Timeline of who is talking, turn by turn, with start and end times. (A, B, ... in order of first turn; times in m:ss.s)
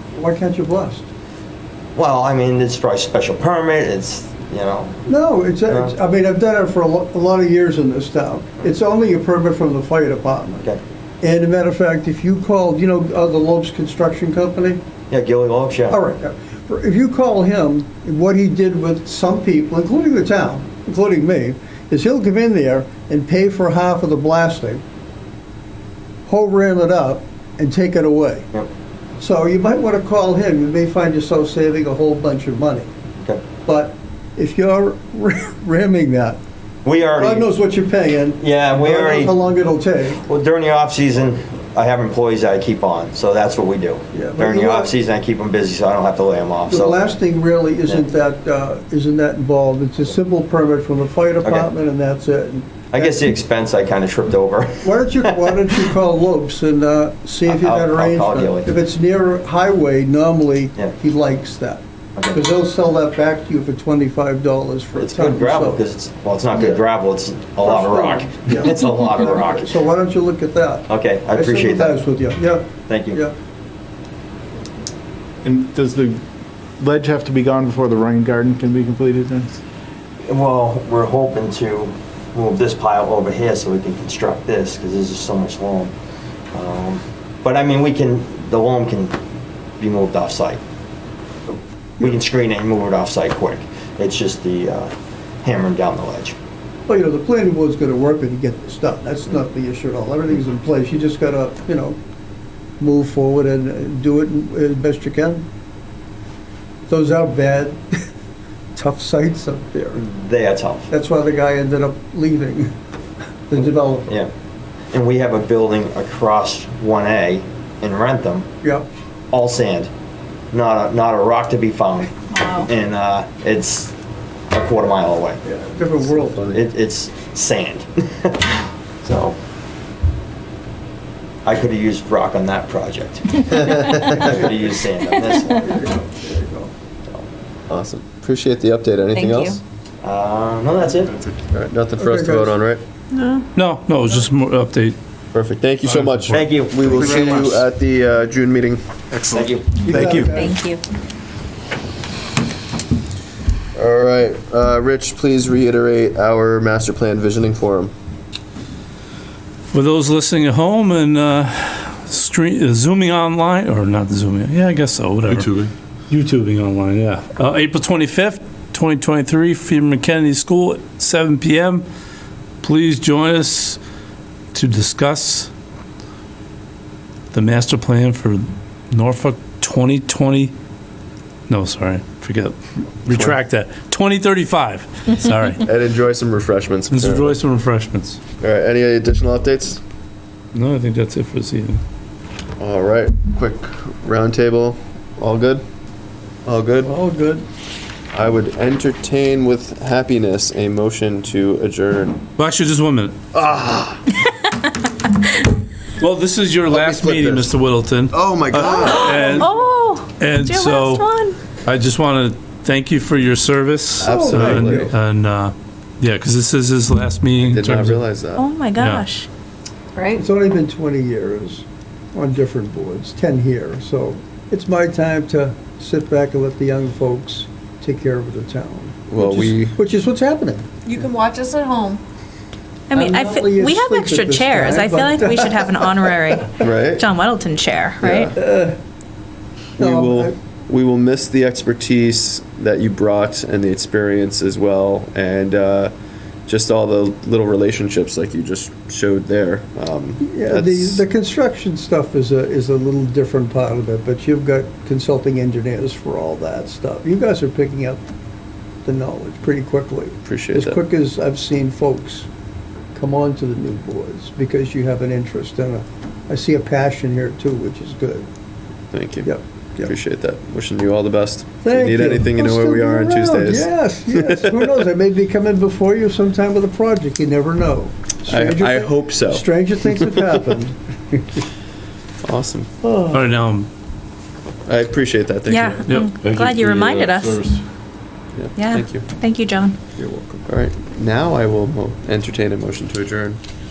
0:00.2-0:01.1 A
0:02.0-0:05.1 B
0:05.1-0:10.7 A
0:05.7-0:06.0 B
0:11.2-0:14.8 A
0:15.1-0:16.0 B
0:15.9-0:24.8 A
0:26.3-0:28.5 A
0:29.2-0:32.9 A
0:33.7-0:36.4 A
0:36.8-0:37.5 B
0:37.2-0:40.2 A
0:38.4-0:39.3 B
0:40.2-0:47.1 B
0:44.1-0:44.9 A
0:46.7-0:53.2 A
0:51.4-0:51.7 B
0:52.9-0:55.6 B
0:54.8-1:05.8 A
0:57.4-0:58.7 B
1:02.2-1:02.4 B
1:05.0-1:09.8 B
1:06.5-1:06.8 A
1:07.6-1:13.3 A
1:10.9-1:12.0 B
1:12.9-1:13.2 B
1:15.4-1:16.2 C
1:16.8-1:19.6 C
1:20.3-1:25.9 B
1:26.5-1:29.2 B
1:29.8-1:30.6 B
1:32.0-1:36.4 B
1:36.9-1:42.0 A
1:42.8-1:45.4 A
1:46.9-1:48.0 A
1:48.8-1:50.0 A
1:50.0-1:50.9 B
1:50.9-1:52.7 A
1:53.5-1:54.2 A
1:53.6-1:54.3 B
1:54.9-1:58.5 B
1:58.6-1:58.9 A
1:59.3-1:59.9 B
2:00.5-2:03.9 B
2:02.3-2:02.7 D
2:04.5-2:05.4 B
2:05.4-2:06.6 A
2:06.0-2:09.4 B
2:11.4-2:15.7 B
2:14.1-2:14.5 A
2:15.3-2:16.7 A
2:17.7-2:19.6 E
2:19.1-2:19.6 D
2:20.0-2:21.2 B
2:21.5-2:22.8 E
2:22.0-2:22.5 A
2:23.1-2:23.4 D
2:23.5-2:25.0 F
2:25.3-2:28.8 E
2:25.8-2:26.5 F
2:26.3-2:27.4 B
2:27.0-2:27.6 C
2:29.1-2:30.4 C
2:29.3-2:30.1 B
2:29.8-2:30.6 A
2:30.3-2:30.8 D
2:33.8-2:37.9 E
2:39.7-2:45.5 F
2:45.3-2:45.7 E
2:46.1-2:51.8 F
2:52.6-2:53.8 F
2:54.5-2:55.5 F
2:57.3-3:00.5 F
3:01.5-3:05.6 F
3:03.1-3:03.4 E
3:05.6-3:07.4 E
3:06.9-3:08.2 F
3:08.4-3:09.8 E
3:10.5-3:11.8 F
3:12.6-3:15.6 E
3:16.4-3:16.9 E
3:16.8-3:17.4 A
3:18.1-3:22.2 E
3:22.4-3:23.2 F
3:23.3-3:24.0 E
3:26.0-3:38.0 F
3:26.7-3:27.5 E
3:28.1-3:29.4 E
3:28.6-3:31.4 G
3:29.2-3:29.4 A
3:34.0-3:34.9 E
3:34.0-3:34.9 A
3:37.4-3:38.5 E
3:38.4-3:39.3 G
3:38.8-3:39.1 F
3:40.2-3:51.0 A
3:49.1-3:49.8 E
3:50.9-3:52.0 D
3:52.9-3:58.3 G
3:52.9-3:56.3 A
3:56.6-3:57.0 E
3:58.0-3:58.3 E
3:58.3-3:58.8 A
3:59.8-4:00.3 A
3:59.8-4:05.9 E
4:06.5-4:11.0 E
4:10.2-4:18.0 A
4:18.8-4:22.3 A
4:20.2-4:20.8 E
4:22.9-4:28.3 A
4:28.9-4:34.7 E
4:29.2-4:29.9 A
4:31.6-4:41.2 A
4:38.3-4:40.4 E
4:42.2-4:42.7 E
4:42.8-4:43.3 A
4:43.1-4:43.7 F
4:44.7-4:46.1 E
4:45.5-4:47.4 G
4:45.8-4:47.6 F
4:48.3-4:49.1 E
4:48.6-4:49.8 G
4:50.0-4:50.3 A
4:50.4-4:53.4 E